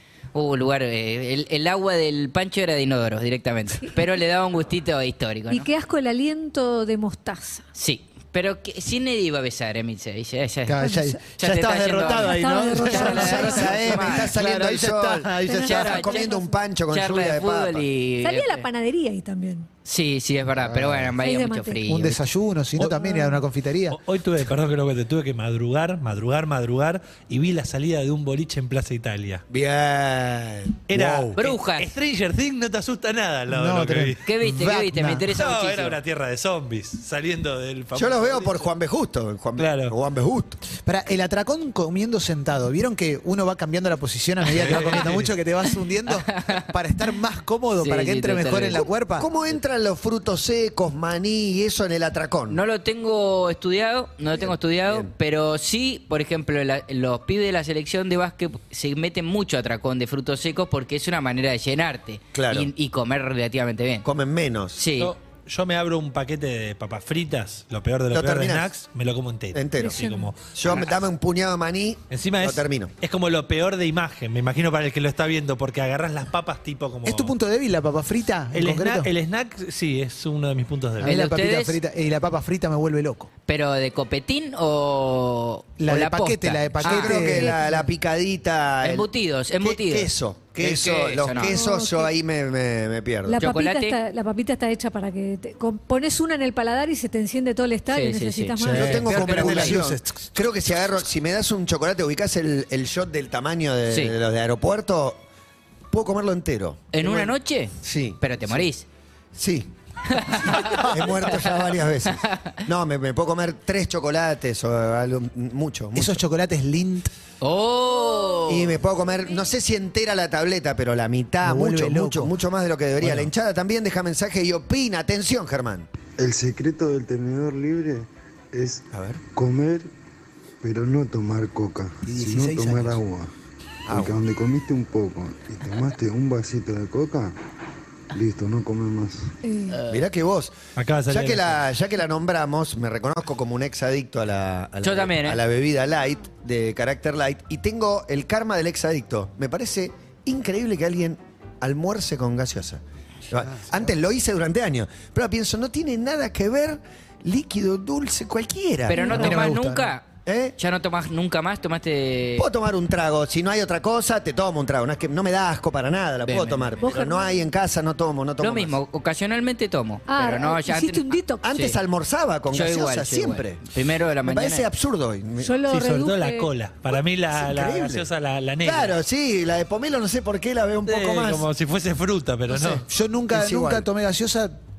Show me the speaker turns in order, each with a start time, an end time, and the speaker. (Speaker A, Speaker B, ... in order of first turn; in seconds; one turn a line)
Speaker A: 0.3-5.7
Speaker B: 5.5-7.6
Speaker A: 7.7-14.2
Speaker C: 10.7-15.9
Speaker B: 10.8-11.2
Speaker B: 12.2-14.2
Speaker D: 13.0-17.9
Speaker B: 15.5-16.5
Speaker A: 15.6-16.3
Speaker A: 16.9-18.6
Speaker B: 18.2-19.7
Speaker A: 19.8-22.2
Speaker C: 20.7-21.1
Speaker B: 21.2-21.8
Speaker C: 21.8-24.0
Speaker B: 22.9-23.4
Speaker E: 23.9-29.4
Speaker D: 29.5-31.3
Speaker E: 30.9-34.2
Speaker A: 31.4-31.9
Speaker C: 33.5-35.2
Speaker A: 34.2-36.0
Speaker E: 35.3-38.7
Speaker D: 37.9-40.6
Speaker E: 39.6-39.9
Speaker C: 40.8-49.3
Speaker E: 44.5-45.3
Speaker A: 47.8-48.9
Speaker D: 49.1-52.6
Speaker A: 52.5-64.0
Speaker D: 54.4-55.1
Speaker D: 62.3-62.7
Speaker D: 64.0-64.8
Speaker A: 64.8-65.1
Speaker E: 65.0-70.8
Speaker D: 68.1-68.7
Speaker D: 69.5-72.9
Speaker B: 69.8-70.3
Speaker E: 72.1-77.3
Speaker C: 77.0-79.1
Speaker E: 78.5-81.2
Speaker C: 81.0-83.3
Speaker A: 81.0-81.8
Speaker A: 83.5-87.2
Speaker C: 85.8-87.9
Speaker D: 86.8-89.1
Speaker B: 87.2-87.5
Speaker A: 88.8-91.6
Speaker D: 89.6-93.4
Speaker C: 90.7-91.2
Speaker B: 91.3-92.1
Speaker B: 93.2-99.2
Speaker A: 93.4-94.0
Speaker A: 97.9-99.8
Speaker C: 98.6-100.3
Speaker D: 98.6-105.2
Speaker A: 103.9-104.1
Speaker D: 105.9-108.6
Speaker A: 106.9-108.8
Speaker D: 109.3-109.7
Speaker A: 110.1-111.5
Speaker D: 110.2-116.2
Speaker A: 112.2-112.5
Speaker C: 115.9-117.1
Speaker A: 117.4-118.8
Speaker D: 118.5-125.9
Speaker C: 121.4-122.3
Speaker E: 123.0-123.3
Speaker F: 126.2-129.9
Speaker D: 128.9-129.2
Speaker F: 130.6-133.3
Speaker C: 132.0-133.0
Speaker D: 133.9-134.2
Speaker F: 133.9-137.3
Speaker F: 138.1-139.3
Speaker B: 139.4-139.8
Speaker A: 139.7-140.0
Speaker D: 139.9-140.5
Speaker E: 140.8-141.6
Speaker D: 141.1-159.4
Speaker A: 144.8-145.4
Speaker C: 153.4-153.9
Speaker A: 158.9-160.0
Speaker B: 158.9-159.4
Speaker C: 159.0-159.9
Speaker D: 160.2-160.5
Speaker A: 160.6-162.5
Speaker D: 162.4-168.8
Speaker A: 166.2-166.8
Speaker B: 166.8-167.5
Speaker A: 168.4-171.8
Speaker B: 170.1-171.4
Speaker D: 171.4-173.6
Speaker A: 172.5-174.7
Speaker D: 174.2-175.5
Speaker B: 175.4-176.5
Speaker E: 175.7-179.0
Speaker D: 177.3-178.1
Speaker D: 178.6-181.4
Speaker E: 180.8-182.8
Speaker D: 182.5-183.9
Speaker C: 182.8-184.6